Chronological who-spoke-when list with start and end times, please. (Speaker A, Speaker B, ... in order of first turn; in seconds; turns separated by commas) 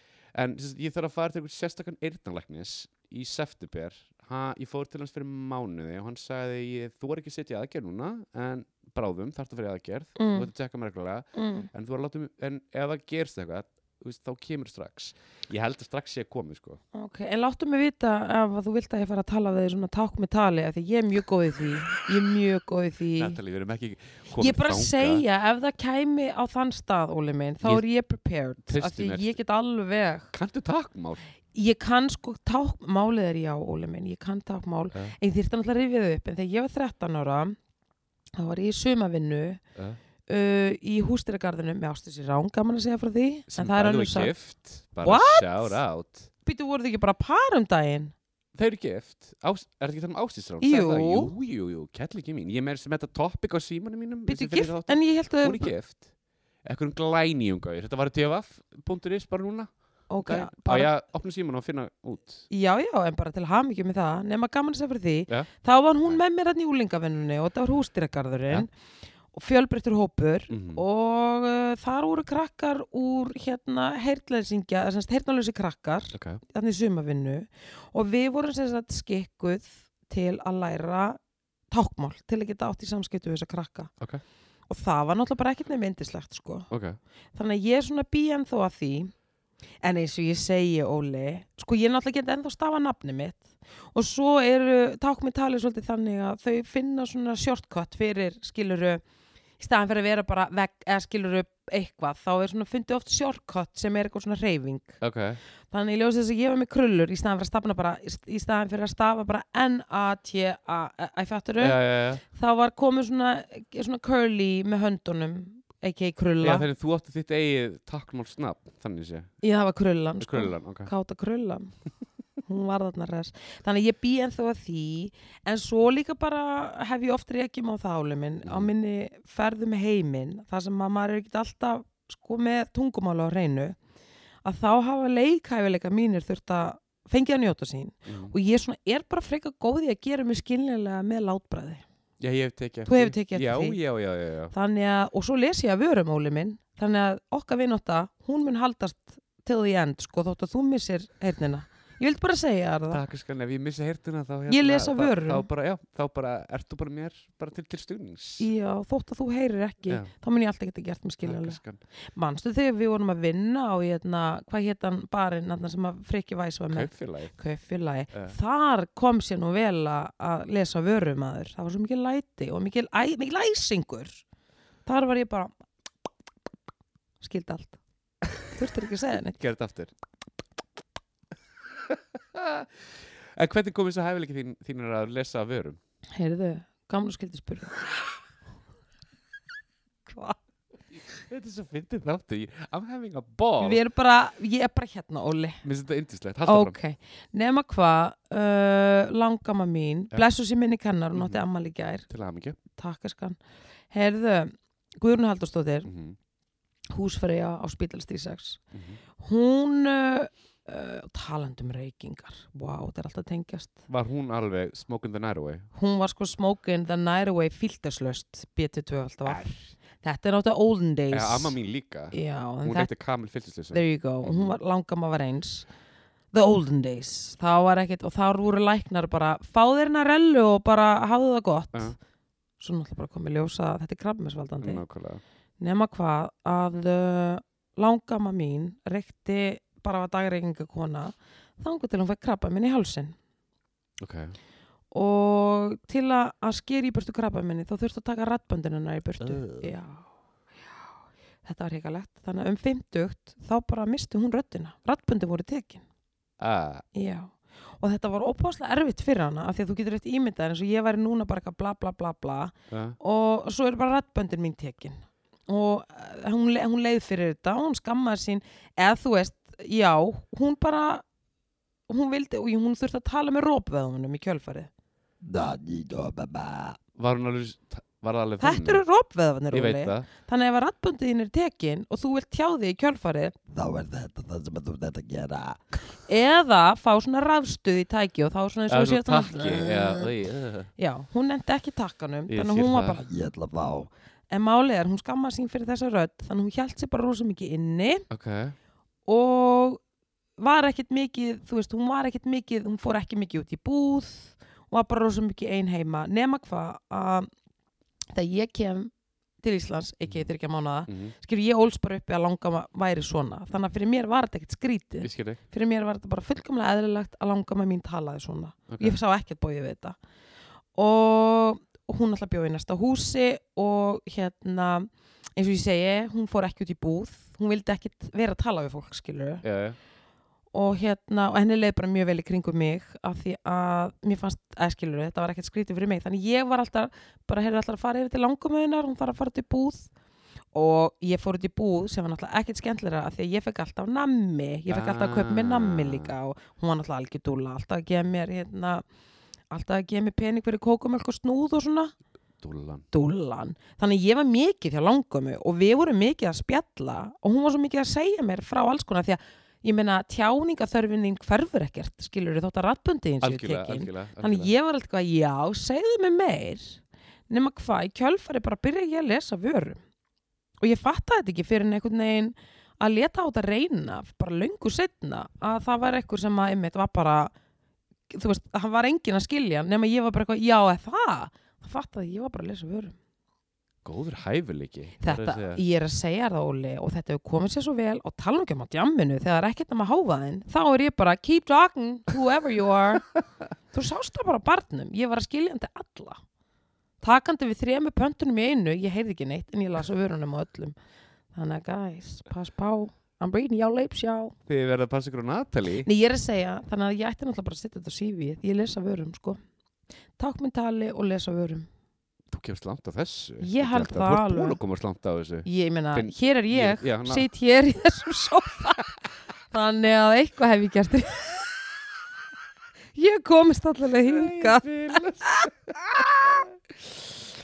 Speaker A: 0.3-16.8, Speaker B: 10.2-10.5, Speaker B: 11.3-11.7, Speaker B: 16.9-23.4, Speaker A: 23.2-25.2, Speaker B: 24.4-30.3, Speaker A: 28.7-29.4, Speaker A: 30.3-31.3, Speaker B: 31.5-37.6, Speaker B: 38.4-39.6, Speaker B: 40.3-44.3, Speaker A: 43.5-46.3, Speaker B: 45.0-45.8, Speaker B: 46.4-48.1, Speaker A: 48.5-56.1, Speaker B: 50.6-51.3, Speaker B: 54.3-55.7, Speaker A: 56.6-62.5, Speaker B: 60.1-60.9, Speaker B: 62.5-68.7, Speaker B: 69.3-81.2, Speaker A: 70.5-70.8, Speaker A: 76.1-76.4, Speaker B: 81.7-83.9, Speaker B: 84.7-86.7, Speaker A: 86.7-87.0, Speaker B: 87.3-89.1, Speaker B: 89.8-99.0, Speaker B: 99.6-105.0, Speaker A: 105.0-105.4, Speaker B: 105.7-116.7, Speaker A: 111.6-112.2, Speaker A: 116.4-119.3, Speaker B: 119.4-121.7, Speaker A: 120.2-120.9, Speaker B: 122.4-133.8, Speaker A: 128.4-128.7, Speaker B: 134.4-141.8, Speaker A: 138.1-138.3, Speaker A: 142.2-144.5, Speaker B: 142.9-143.8, Speaker B: 144.5-153.0, Speaker A: 152.9-158.5, Speaker B: 154.5-155.5, Speaker B: 158.4-161.6, Speaker A: 161.2-161.8, Speaker B: 162.1-174.2, Speaker A: 166.7-167.3, Speaker B: 174.9-175.5, Speaker B: 177.2-177.8, Speaker B: 178.4-179.4, Speaker A: 179.3-179.9, Speaker A: 181.9-185.8, Speaker B: 186.1-187.8, Speaker B: 190.1-190.4, Speaker A: 191.3-193.8, Speaker B: 193.6-195.6, Speaker A: 195.6-196.8, Speaker B: 196.4-202.1, Speaker A: 201.2-201.4, Speaker A: 202.1-202.6, Speaker B: 202.7-203.4, Speaker B: 203.9-205.9, Speaker A: 205.9-206.2, Speaker B: 206.9-208.6, Speaker A: 208.7-209.0, Speaker B: 209.2-213.8, Speaker A: 213.9-215.7, Speaker B: 215.8-221.6, Speaker A: 219.2-219.6, Speaker A: 221.1-224.5, Speaker B: 222.1-222.9, Speaker B: 223.7-225.7, Speaker B: 226.3-231.9, Speaker B: 232.6-234.8, Speaker A: 234.6-235.2, Speaker B: 235.6-243.2, Speaker A: 244.0-244.4, Speaker B: 244.9-250.1, Speaker A: 249.2-249.7, Speaker B: 251.4-255.8, Speaker A: 256.4-256.9, Speaker B: 256.9-271.0, Speaker A: 262.7-263.0, Speaker B: 271.9-274.7, Speaker C: 275.2-276.8, Speaker A: 277.0-278.8, Speaker B: 278.4-283.4, Speaker A: 279.5-280.1, Speaker C: 283.5-285.6, Speaker B: 286.1-290.0, Speaker A: 288.7-290.7, Speaker B: 290.8-293.1, Speaker A: 292.3-293.0, Speaker C: 293.0-293.9, Speaker B: 294.3-298.1, Speaker A: 298.1-298.6, Speaker B: 299.1-299.8, Speaker B: 300.4-307.3, Speaker B: 308.1-320.0, Speaker A: 310.9-311.1, Speaker A: 315.0-315.4, Speaker A: 318.7-319.0, Speaker B: 320.8-329.4, Speaker A: 329.4-329.8, Speaker B: 330.5-339.9, Speaker B: 340.5-348.8, Speaker A: 344.7-346.1, Speaker B: 349.5-351.9, Speaker A: 352.4-352.9, Speaker B: 352.9-369.8, Speaker A: 363.2-364.5, Speaker B: 370.6-377.3, Speaker B: 378.1-383.0, Speaker A: 383.8-385.6, Speaker B: 385.0-393.1, Speaker B: 393.7-396.2, Speaker B: 397.0-400.8, Speaker B: 401.3-404.4, Speaker A: 404.5-405.9, Speaker B: 405.8-409.4, Speaker B: 410.2-411.7, Speaker A: 412.3-417.3, Speaker B: 413.4-414.6, Speaker B: 415.4-419.0, Speaker B: 419.5-421.5, Speaker B: 422.9-425.5, Speaker A: 424.1-426.3